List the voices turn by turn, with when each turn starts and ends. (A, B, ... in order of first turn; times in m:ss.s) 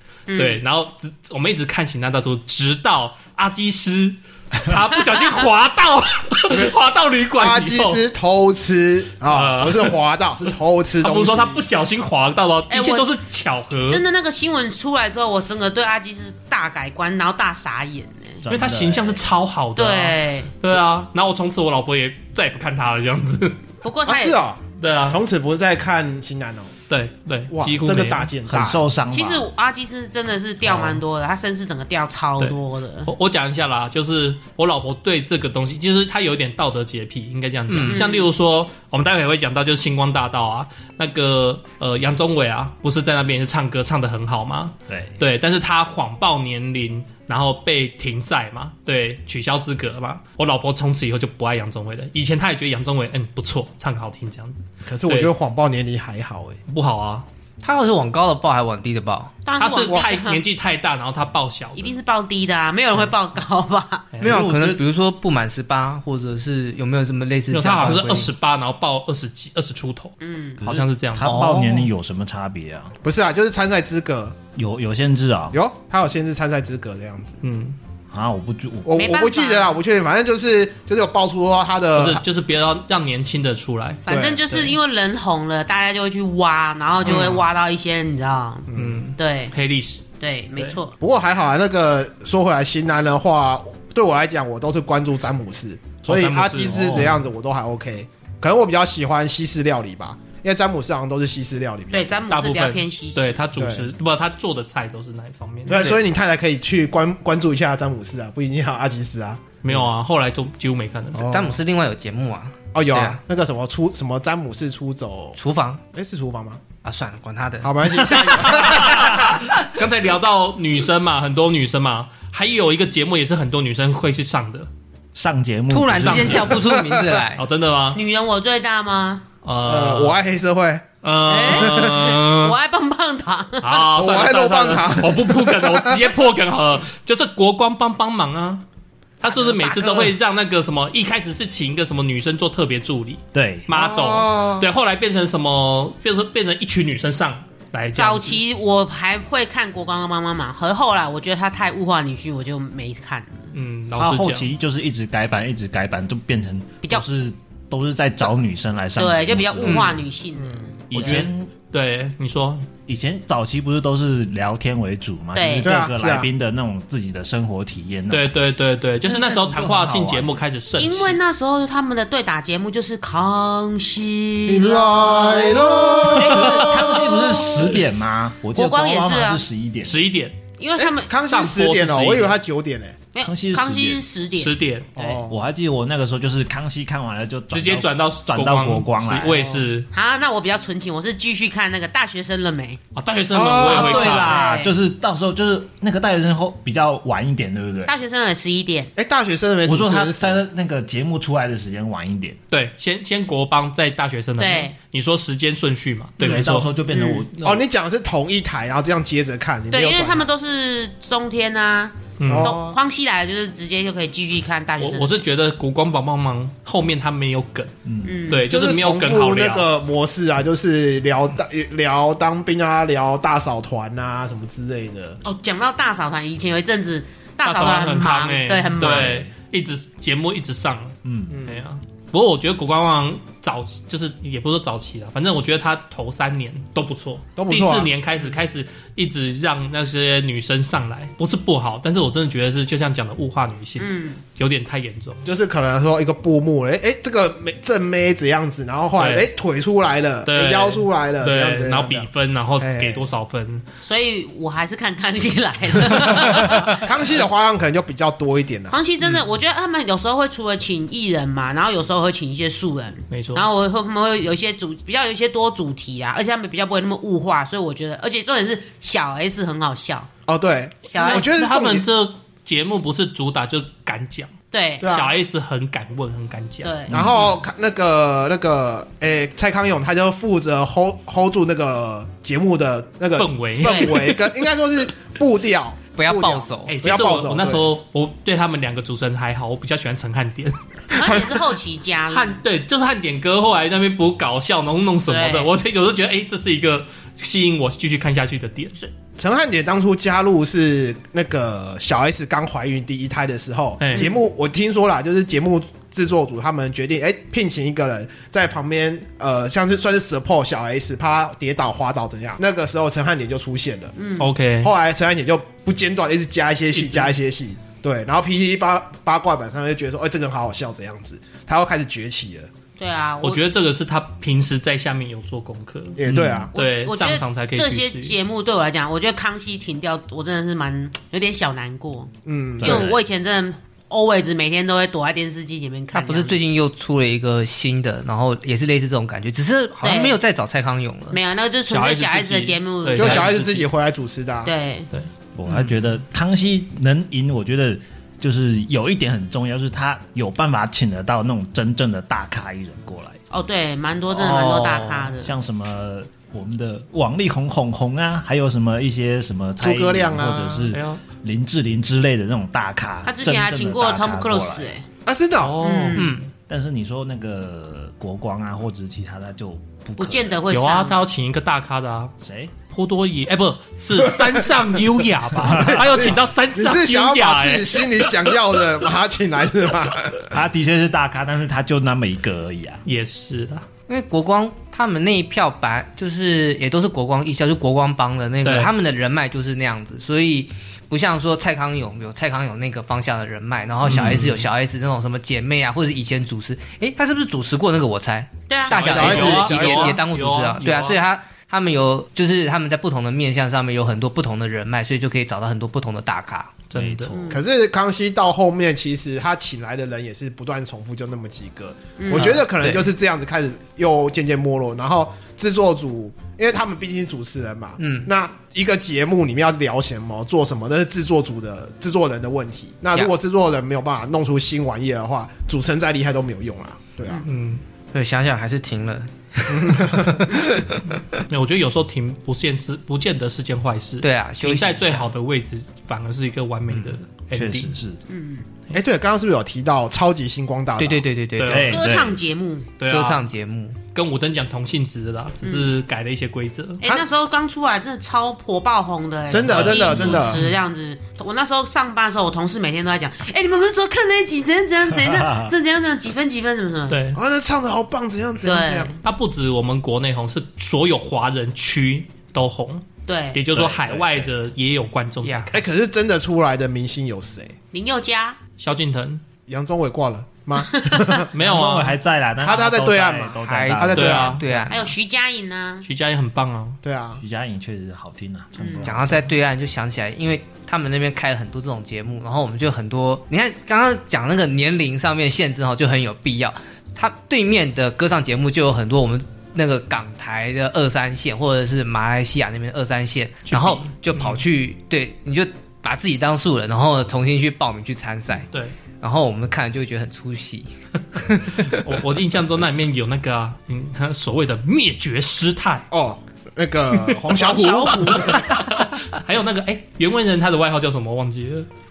0:00.3-0:00.6 A
0:00.4-0:08.0 B
0:06.5-0:06.7 C
0:07.4-0:11.6 C
0:09.3-0:10.0 B
0:11.0-0:14.0 B
0:12.7-0:13.1 A
0:13.9-0:18.4 A
0:18.4-0:19.2 D
0:18.5-0:23.6 B
0:19.8-0:20.5 A
0:23.8-0:24.4 A
0:24.1-0:26.7 C
0:24.8-0:25.2 B
0:26.9-0:28.3 B
0:27.5-0:28.8 C
0:28.5-0:29.5 D
0:29.1-0:33.1 A
0:30.6-0:31.0 B
0:32.4-0:55.3 B
0:37.7-0:38.0 E
0:37.9-0:38.3 A
0:44.9-0:45.2 D
0:54.9-0:56.6 C
0:56.7-0:57.3 B
0:57.6-0:59.4 E
0:59.4-1:00.4 A
0:59.6-1:02.0 B
1:01.8-1:04.1 A
1:04.1-1:04.5 B
1:04.2-1:08.3 E
1:04.2-1:04.8 D
1:07.5-1:11.4 B
1:10.2-1:10.6 A
1:10.6-1:13.0 D
1:11.2-1:11.9 E
1:13.0-1:14.4 C
1:14.6-1:15.6 D
1:15.5-1:17.4 C
1:17.4-1:17.8 B
1:18.1-1:19.0 D
1:18.8-1:22.2 C
1:18.9-1:19.8 A
1:22.0-1:24.8 B
1:24.1-1:29.5 A
1:24.1-1:24.5 C
1:27.0-1:27.4 B
1:28.7-1:29.0 C
1:28.7-1:30.0 B
1:30.2-1:30.9 A
1:31.0-1:42.3 C
1:36.0-1:37.2 B
1:41.9-1:43.4 A
1:42.3-1:45.9 B
1:43.6-1:43.9 C
1:45.7-1:49.9 C
1:49.6-1:51.3 B
1:51.2-1:51.6 C
1:51.3-1:53.2 E
1:52.7-1:55.4 C
1:55.4-1:55.8 E
1:55.9-1:56.6 C
1:56.8-1:58.4 E
1:57.6-1:59.3 C
1:58.1-2:04.7 B
2:05.2-2:06.6 D
2:05.7-2:07.4 E
2:06.0-2:06.5 B
2:06.5-2:07.2 C
2:07.4-2:08.0 B
2:07.9-2:09.2 A
2:09.4-2:10.2 B
2:09.6-2:10.8 C
2:11.0-2:12.6 B
2:11.3-2:13.9 A
2:11.5-2:12.0 C
2:13.6-2:18.6 B
2:13.9-2:16.1 C
2:19.2-2:28.4 B
2:19.2-2:20.1 A
2:23.3-2:23.7 D
2:23.7-2:24.7 C
2:28.0-2:33.5 A
2:33.5-2:34.5 B
2:34.0-2:39.9 D
2:39.0-2:41.2 A
2:39.6-2:39.9 E
2:40.9-2:41.5 D
2:40.9-2:42.7 B
2:42.9-2:48.3 D
2:45.4-2:45.7 A
2:45.6-2:46.3 C
2:48.1-2:51.2 B
2:49.1-2:50.4 D
2:50.8-2:57.4 A
2:54.5-2:57.7 C
2:56.1-3:00.0 D
2:58.5-2:59.4 A
2:59.8-3:00.4 B
3:00.6-3:01.1 A
3:00.8-3:03.0 C
3:01.1-3:02.4 B
3:03.1-3:05.2 A
3:03.2-3:04.0 D
3:04.4-3:04.9 B
3:05.0-3:05.4 C
3:05.3-3:09.5 D
3:07.5-3:09.9 B
3:09.9-3:12.8 A
3:13.0-3:14.4 B
3:13.3-3:14.2 C
3:13.6-3:17.9 D
3:13.8-3:14.8 A
3:17.9-3:18.9 A
3:19.0-3:20.4 C
3:19.6-3:22.4 D
3:22.5-3:26.7 B
3:24.4-3:24.8 A
3:26.2-3:27.6 D
3:26.9-3:27.3 A
3:27.4-3:30.3 C
3:29.7-3:35.2 A
3:32.2-3:32.6 B
3:32.3-3:32.8 C
3:34.8-3:37.7 B
3:37.8-3:38.2 D
3:38.0-3:38.5 A
3:38.3-3:39.7 B
3:38.4-3:45.2 C
3:45.2-3:49.2 A
3:47.4-4:05.2 B
3:48.8-3:49.3 D
3:51.0-3:51.3 D
3:51.3-3:51.7 C
3:57.4-3:57.9 C
4:03.8-4:04.2 A
4:05.2-4:12.1 C
4:09.0-4:09.3 B
4:10.3-4:13.6 B
4:12.6-4:13.1 C
4:13.8-4:16.9 A
4:16.1-4:18.8 C
4:18.7-4:30.1 A
4:23.1-4:23.4 B
4:30.3-4:31.8 C
4:30.9-4:31.3 A
4:30.9-4:36.7 B
4:34.5-4:34.9 A
4:34.8-4:35.1 C
4:36.6-4:37.4 A
4:36.9-4:47.7 C
4:36.9-4:37.2 D
4:43.2-4:44.2 B
4:43.6-4:44.0 A
4:45.9-4:46.8 E
4:46.7-4:51.5 B
4:50.9-4:52.4 A
4:52.1-4:58.8 B
4:55.1-4:55.5 A
4:59.2-5:13.9 C
5:03.8-5:04.1 B
5:03.9-5:04.2 A
5:14.0-5:14.3 A
5:14.2-5:14.7 B
5:14.6-5:22.5 C
5:16.7-5:17.2 B
5:22.8-5:23.4 A
5:23.2-5:26.0 B
5:26.0-5:26.5 C
5:26.1-5:26.5 D
5:26.5-5:36.4 A
5:26.6-5:28.2 B
5:32.3-5:32.9 C
5:32.6-5:33.0 D
5:35.9-5:41.2 E
5:39.8-5:40.2 A
5:41.1-5:43.3 A
5:41.7-5:43.7 B
5:43.0-5:44.5 C
5:44.4-5:44.9 A
5:45.4-5:53.2 D
5:53.3-5:55.3 A
5:54.2-6:04.7 D
5:54.2-5:55.1 E
5:59.6-6:00.7 C
6:00.7-6:01.0 B
6:03.0-6:04.8 A
6:05.1-6:05.7 C
6:05.4-6:06.1 B
6:05.6-6:06.2 A
6:06.0-6:06.3 E
6:06.5-6:10.4 D
6:10.0-6:11.0 A
6:10.5-6:12.1 B
6:12.2-6:12.5 D
6:12.7-6:18.4 B
6:14.0-6:14.6 C
6:15.4-6:20.3 C
6:15.5-6:15.8 D
6:20.3-6:22.8 D
6:22.8-6:23.7 B
6:23.9-6:46.6 E
6:28.4-6:28.7 B
6:33.8-6:34.3 B
6:33.9-6:34.4 D
6:38.5-6:39.5 A
6:38.7-6:41.0 B
6:38.8-6:40.0 C
6:46.7-6:47.1 B
6:46.8-6:47.2 D
6:47.1-6:47.4 A
6:47.3-7:07.3 C
6:52.0-6:52.4 A
6:52.2-6:52.9 E
6:57.8-6:58.1 E
7:07.2-7:07.6 B
7:07.9-7:11.2 E
7:09.5-7:10.2 C
7:11.3-7:17.7 B
7:14.0-7:15.1 E
7:16.7-7:17.0 E
7:17.3-7:18.0 D
7:18.1-7:18.4 A
7:18.7-7:21.1 C
7:20.8-7:21.8 E
7:21.4-7:21.8 B
7:21.5-7:22.2 D
7:21.6-7:22.7 A
7:22.8-7:23.2 B
7:22.9-7:23.8 E
7:23.9-7:26.8 B
7:25.4-7:25.8 A
7:26.8-7:37.0 A
7:29.3-7:30.4 C
7:29.4-7:30.5 B
7:35.1-7:35.5 D
7:36.9-7:37.2 B
7:37.2-7:39.0 C
7:38.4-7:39.0 A
7:39.0-7:45.6 B
7:43.0-7:43.4 A
7:43.5-7:44.3 D
7:45.2-7:45.5 E
7:45.5-7:47.6 C
7:47.7-7:48.4 A
7:48.6-7:49.2 B
7:49.5-7:51.3 C
7:50.7-7:51.2 A
7:51.3-7:52.0 B
7:51.4-7:54.6 D
7:52.4-7:54.6 C
7:53.4-7:55.0 E
7:53.9-7:54.4 B
7:54.7-7:55.9 A
7:55.8-7:56.8 B
7:56.8-7:57.2 C
7:57.2-7:59.3 D
7:58.6-7:58.9 A
7:58.8-8:18.5 E
8:13.5-8:14.4 B
8:19.0-8:21.9 E
8:21.7-8:25.9 B
8:25.9-8:28.5 C
8:27.3-8:28.4 A
8:27.9-8:31.7 B